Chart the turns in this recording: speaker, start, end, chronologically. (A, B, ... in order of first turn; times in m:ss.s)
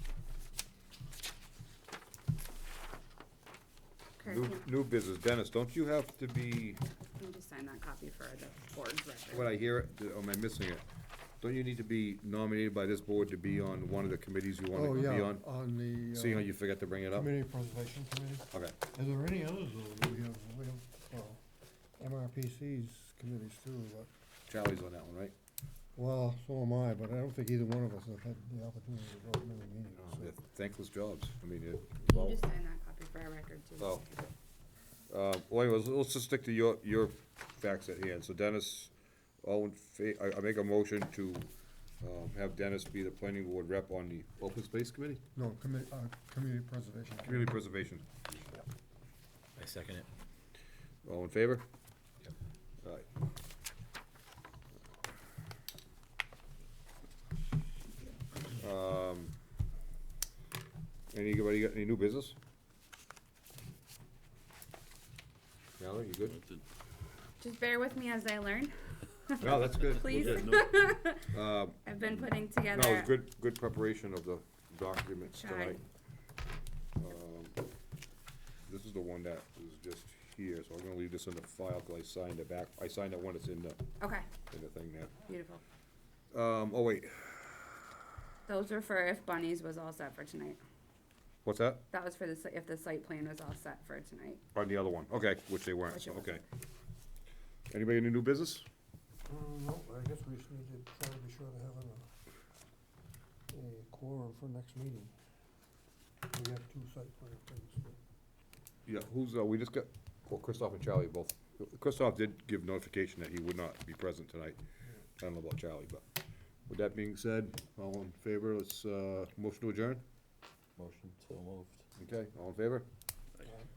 0:04.2-0:04.6 A
0:04.3-0:06.8 B
0:07.2-0:09.5 A
0:09.3-0:10.8 B
0:11.4-0:15.4 B
0:14.7-0:16.5 C
0:16.1-0:17.3 B
0:17.1-0:21.4 C
0:18.5-0:18.8 B
0:22.0-0:24.1 C
0:24.5-0:25.3 B
0:26.0-0:30.3 C
0:30.0-0:32.4 B
0:32.1-0:34.3 A
0:33.8-0:34.0 B
0:35.1-0:38.9 B
0:39.4-0:41.5 B
0:42.0-0:45.2 B
0:45.4-0:47.6 C
0:47.2-0:48.1 B
0:49.6-0:50.1 D
0:51.0-0:51.6 B
0:58.6-0:59.4 B
1:01.1-1:02.4 B
1:05.8-1:06.4 B
1:07.4-1:11.3 A
1:09.4-1:10.6 B
1:09.5-1:10.9 D
1:11.3-1:11.8 B
1:11.8-1:13.1 A
1:12.7-1:15.8 B
1:15.3-1:15.8 A
1:17.0-1:17.6 B
1:18.7-1:23.8 B
1:24.0-1:24.3 A
1:24.5-1:25.2 B
1:25.3-1:25.6 A
1:26.3-1:27.8 B
1:28.5-1:30.6 A
1:31.4-1:31.8 B
1:31.9-1:34.4 A
1:34.5-1:36.4 B
1:35.9-1:36.4 A
1:37.7-1:38.7 B
1:39.3-1:42.1 C
1:43.5-1:45.2 C
1:46.3-1:48.0 C
1:48.9-1:54.6 B
1:55.2-1:56.0 B
1:56.7-2:00.0 B
2:00.8-2:01.8 D
2:02.0-2:02.9 B